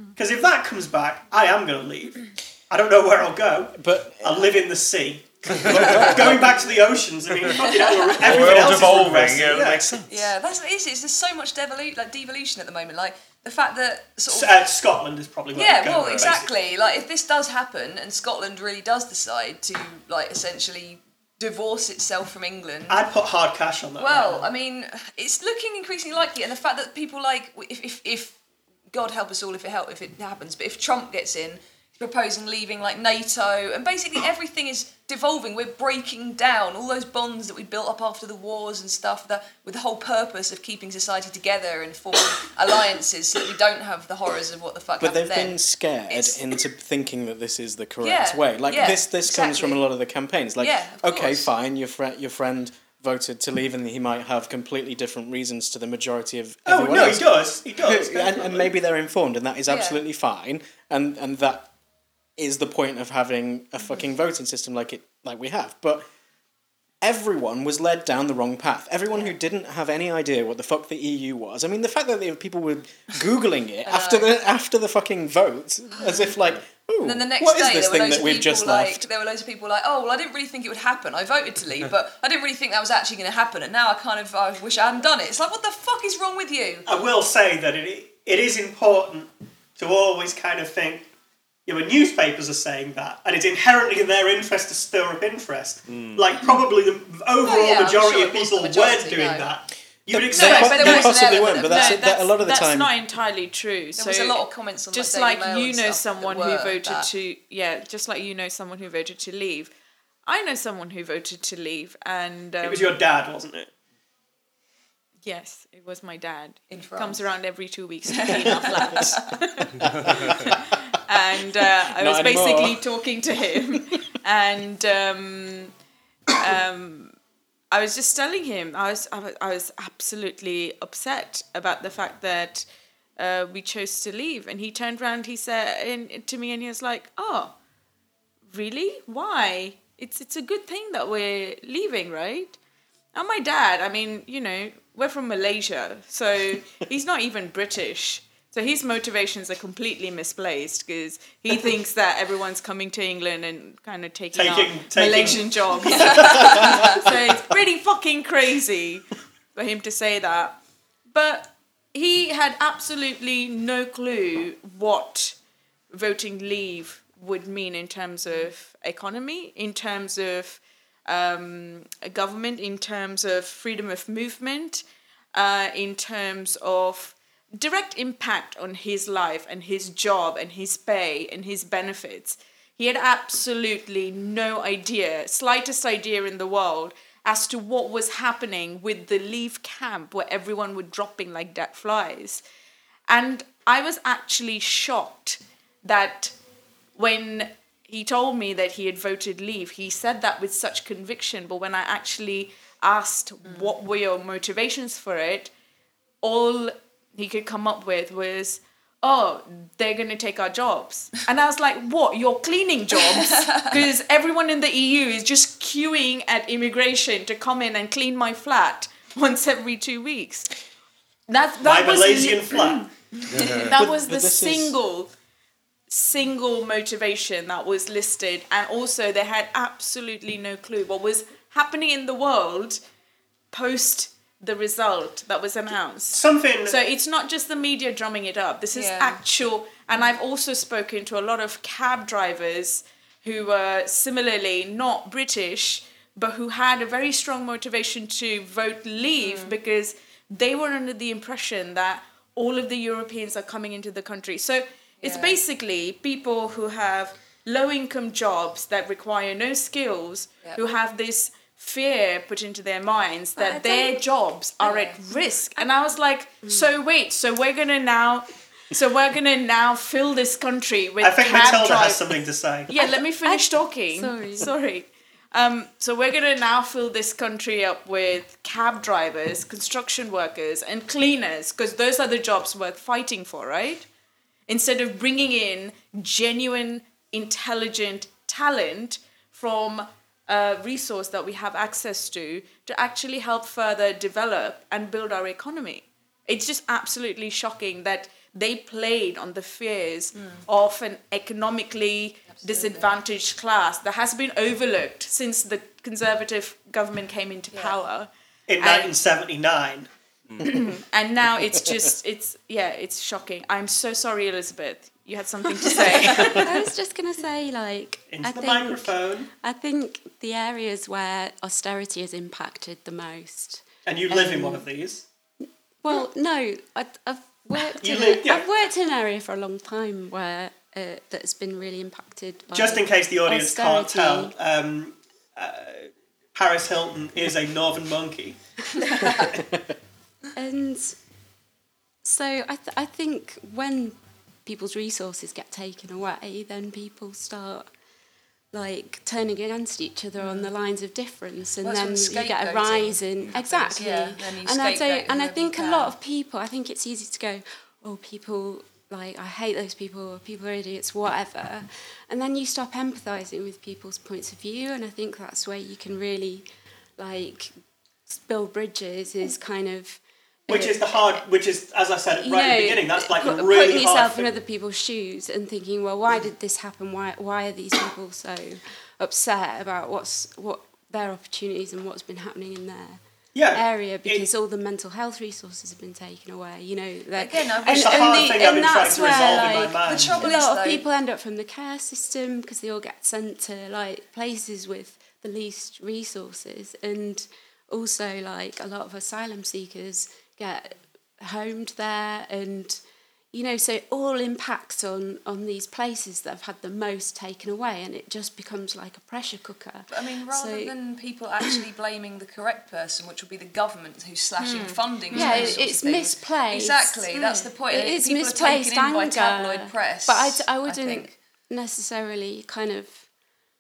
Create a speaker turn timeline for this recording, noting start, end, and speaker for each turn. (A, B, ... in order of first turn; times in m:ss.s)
0:00.2-0:09.9 A
0:03.8-0:04.5 B
0:05.5-0:06.3 C
0:05.6-0:06.7 B
0:07.6-0:08.1 D
0:08.2-0:10.3 C
0:10.1-0:14.6 D
0:14.3-0:16.5 A
0:15.6-0:23.0 D
0:16.0-0:16.4 C
0:22.9-0:24.5 A
0:24.0-0:28.4 D
0:28.9-0:46.4 D
0:45.0-1:01.7 B
0:48.0-0:49.8 D
0:50.6-0:51.5 D
0:56.7-0:58.7 A
0:59.7-1:00.0 D
1:02.4-1:06.1 B
1:07.0-1:19.1 B
1:13.9-1:14.3 D
1:17.0-1:26.9 D
1:26.9-1:31.1 A
1:31.7-1:41.2 A
1:35.9-1:36.2 C
1:37.4-1:39.5 D
1:40.1-1:42.9 B
1:40.3-1:42.2 D
1:41.5-1:49.7 E
1:44.0-1:47.1 D
1:50.3-1:53.0 E
1:52.6-1:53.7 A
1:55.2-2:05.7 E
1:56.7-1:57.2 D
1:58.1-1:59.2 D
1:58.3-1:59.2 B
1:59.9-2:00.3 C
1:59.9-2:00.5 B
2:01.6-2:02.8 B
2:03.6-2:03.8 B
2:06.3-2:07.2 E
2:07.7-2:12.6 E
2:13.2-2:17.6 E
2:18.5-2:22.6 E
2:23.1-2:40.6 E
2:34.3-2:36.9 A
2:35.9-2:37.0 D
2:41.1-2:45.4 E
2:45.9-2:54.8 E
2:55.4-3:12.4 E
3:13.1-3:16.4 E
3:17.0-3:25.5 E
3:26.2-3:40.5 E
3:33.4-3:33.8 D
3:41.3-3:45.1 E
3:41.6-3:42.9 A
3:43.3-3:43.6 C
3:43.8-3:44.8 B
3:45.9-3:52.8 E
3:53.5-4:32.1 E
3:56.1-3:56.8 A
3:58.7-3:59.2 D
4:09.2-4:09.5 D
4:15.0-4:15.4 D
4:23.4-4:24.0 F
4:24.6-4:25.0 D
4:26.4-4:26.7 F
4:31.0-4:32.7 A
4:32.7-4:43.9 E
4:33.2-4:34.5 F
4:44.5-5:08.1 E
5:02.4-5:03.0 D
5:08.5-5:09.9 A
5:08.6-5:08.9 E
5:10.4-5:16.5 E
5:11.5-5:11.8 B
5:16.1-5:24.6 F
5:18.1-5:19.3 A
5:23.8-5:25.0 A
5:25.8-5:34.3 F
5:27.6-5:28.5 A
5:32.5-5:38.4 A
5:38.8-5:39.3 D
5:39.1-5:39.7 B
5:40.4-5:41.0 F
5:42.0-5:47.7 F
5:48.5-6:07.5 F
5:50.2-5:50.5 D
5:51.6-5:56.0 D
6:08.1-6:10.8 F
6:10.5-6:14.3 A
6:12.3-6:50.7 F
6:23.4-6:24.3 A
6:27.2-6:30.8 D
6:27.6-6:30.3 A
6:49.9-7:01.1 D
6:54.4-6:55.6 E
6:55.1-7:03.1 F